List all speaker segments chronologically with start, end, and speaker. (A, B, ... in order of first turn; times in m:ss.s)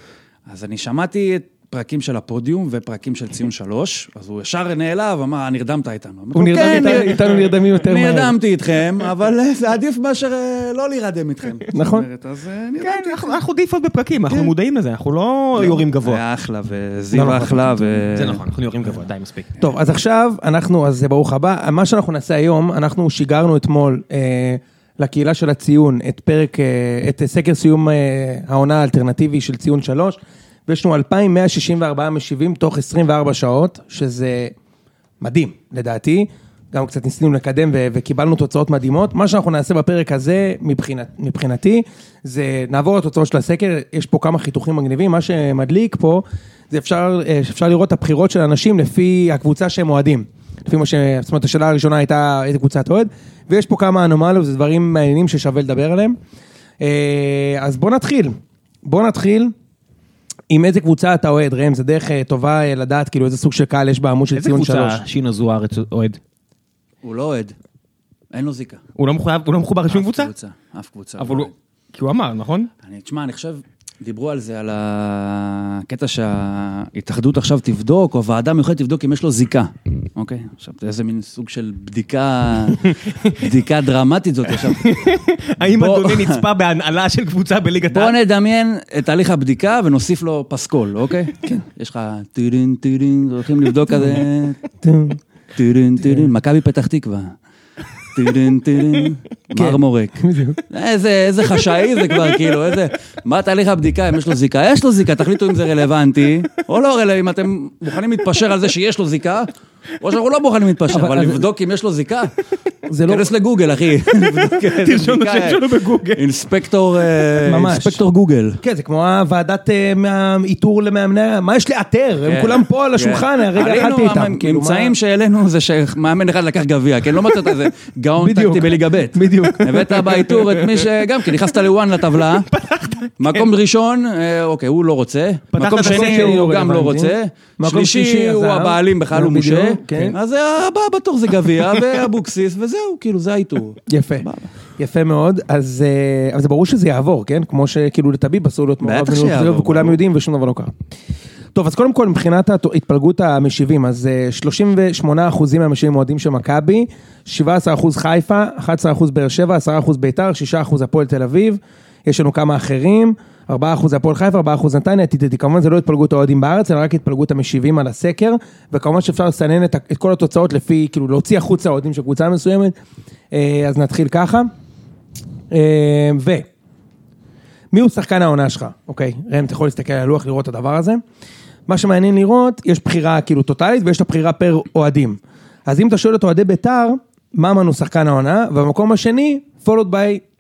0:00.5-0:13.4 A
0:06.3-0:08.4 B
0:11.7-0:12.1 B
0:12.8-0:16.2 C
0:15.5-0:18.4 A
0:17.1-0:18.0 B
0:18.1-0:19.5 C
0:19.6-0:34.6 B
0:35.2-0:56.2 B
0:56.8-0:59.5 B
1:00.5-1:05.0 B
1:04.4-1:06.2 C
1:07.0-1:07.6 A
1:08.3-1:08.8 A
1:09.0-1:10.3 C
1:09.9-1:11.5 A
1:11.2-1:12.7 C
1:12.8-1:24.9 A
1:24.7-1:28.2 C
1:25.6-1:26.4 A
1:27.9-1:34.6 A
1:34.8-1:35.2 B
1:35.6-1:37.4 A
1:38.1-1:40.2 A
1:39.6-1:40.6 B
1:40.7-1:52.3 A
1:50.9-1:51.4 B
1:52.9-1:53.3 B
1:53.0-1:58.6 A
1:54.1-1:56.2 C
1:57.4-1:58.0 B
1:58.6-2:04.9 B
2:02.2-2:12.5 A
2:08.2-2:10.3 B
2:10.1-2:10.9 C
2:12.0-2:13.5 C
2:13.2-2:24.5 A
2:15.5-2:16.4 C
2:15.7-2:20.2 B
2:23.9-2:24.3 B
2:24.8-2:30.7 B
2:28.8-2:30.0 A
2:31.6-2:52.8 B
2:53.3-2:54.5 B
2:55.5-2:56.5 B
2:57.7-3:01.0 B
3:01.7-3:10.2 B